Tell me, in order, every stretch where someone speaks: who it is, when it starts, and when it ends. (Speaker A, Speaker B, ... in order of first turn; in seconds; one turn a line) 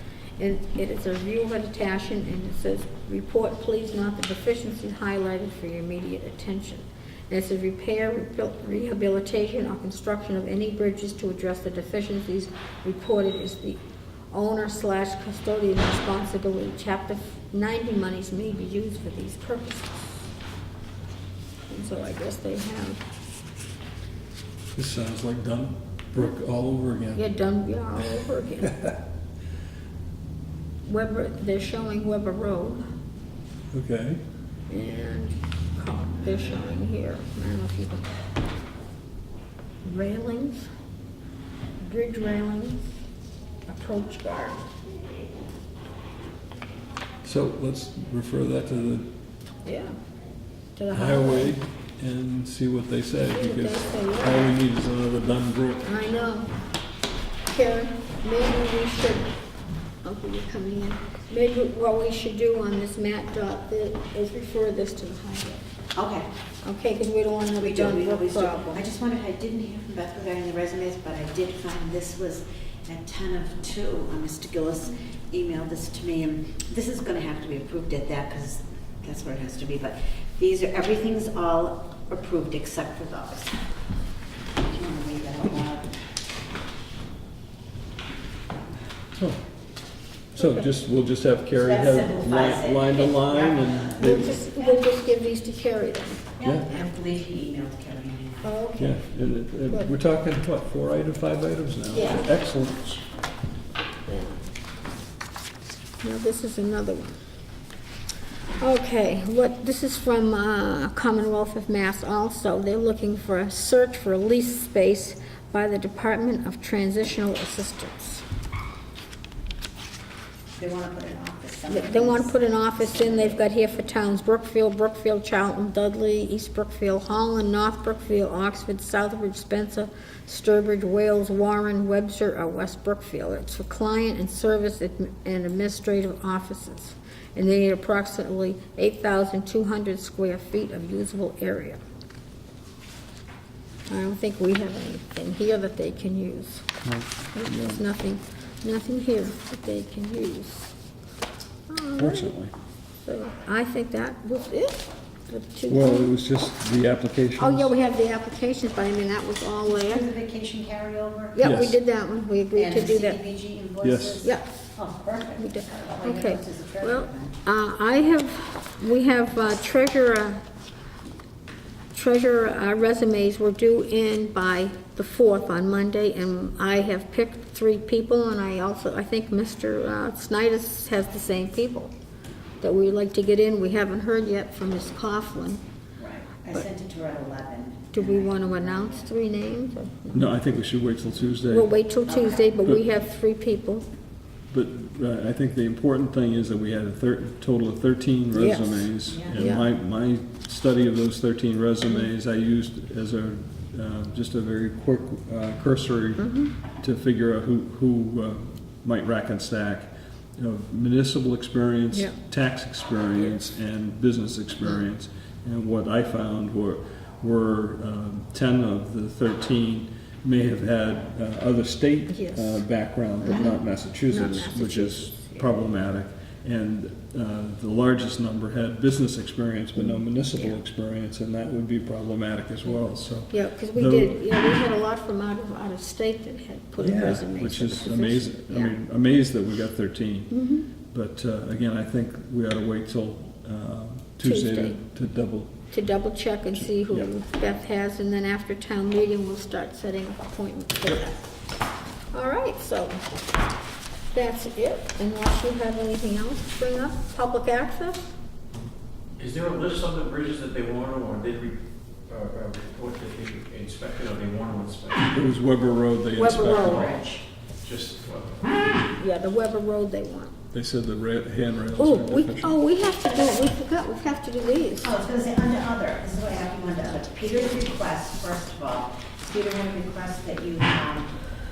Speaker A: 0.4-13.8
Speaker A: 14.3-20.2
Speaker A: 21.7-23.0
Speaker B: 24.8-27.2
Speaker A: 27.1-28.9
Speaker A: 30.8-32.9
Speaker B: 33.7-34.2
Speaker A: 34.7-38.1
Speaker A: 39.8-40.7
Speaker A: 41.8-42.9
Speaker A: 43.7-44.7
Speaker B: 47.2-49.1
Speaker A: 49.6-49.9
Speaker A: 50.7-51.5
Speaker B: 50.9-55.9
Speaker A: 53.3-54.5
Speaker A: 55.8-56.5
Speaker A: 57.5-59.3
Speaker A: 60.0-65.6
Speaker C: 66.0-66.3
Speaker A: 66.6-68.8
Speaker C: 67.6-83.5
Speaker C: 84.6-85.9
Speaker B: 89.1-89.4
Speaker B: 90.3-94.4
Speaker C: 91.6-94.7
Speaker A: 94.0-96.2
Speaker C: 96.4-98.5
Speaker B: 96.4-96.7
Speaker A: 98.4-99.0
Speaker B: 98.8-102.9
Speaker A: 101.9-102.2
Speaker A: 104.1-104.5
Speaker A: 106.0-107.2
Speaker A: 108.6-118.2
Speaker C: 120.5-123.3
Speaker A: 121.7-141.8
Speaker A: 143.9-146.7
Speaker B: 146.8-147.8
Speaker A: 147.3-150.7
Speaker A: 151.7-152.3
Speaker B: 152.0-152.5
Speaker A: 153.0-156.1
Speaker B: 155.7-157.7
Speaker A: 157.4-160.1
Speaker C: 159.7-161.5
Speaker A: 161.3-163.2
Speaker B: 161.4-161.8
Speaker C: 162.6-167.3
Speaker B: 163.8-164.2
Speaker A: 164.2-164.6
Speaker A: 165.4-170.4
Speaker A: 171.9-181.9
Speaker A: 182.6-185.6
Speaker C: 186.0-189.1
Speaker A: 187.9-190.2
Speaker B: 190.1-191.7
Speaker A: 191.5-193.8
Speaker C: 192.1-192.5
Speaker B: 192.6-192.8
Speaker B: 194.5-206.3
Speaker A: 198.3-199.7
Speaker C: 199.1-199.4
Speaker A: 206.2-206.5
Speaker B: 206.8-234.1
Speaker A: 211.9-212.2
Speaker A: 222.1-222.6
Speaker A: 223.2-225.5
Speaker A: 229.8-230.6
Speaker A: 233.3-238.8
Speaker B: 236.8-240.3
Speaker A: 240.3-240.7
Speaker B: 240.9-245.5
Speaker A: 244.2-244.8
Speaker A: 245.7-251.2
Speaker B: 246.6-247.1
Speaker A: 252.1-253.0
Speaker A: 254.1-258.1
Speaker D: 259.2-265.1
Speaker B: 265.1-267.0
Speaker C: 266.2-267.2
Speaker D: 267.6-268.6
Speaker A: 269.0-270.3
Speaker B: 270.5-272.6
Speaker A: 271.8-274.9
Speaker C: 274.8-281.1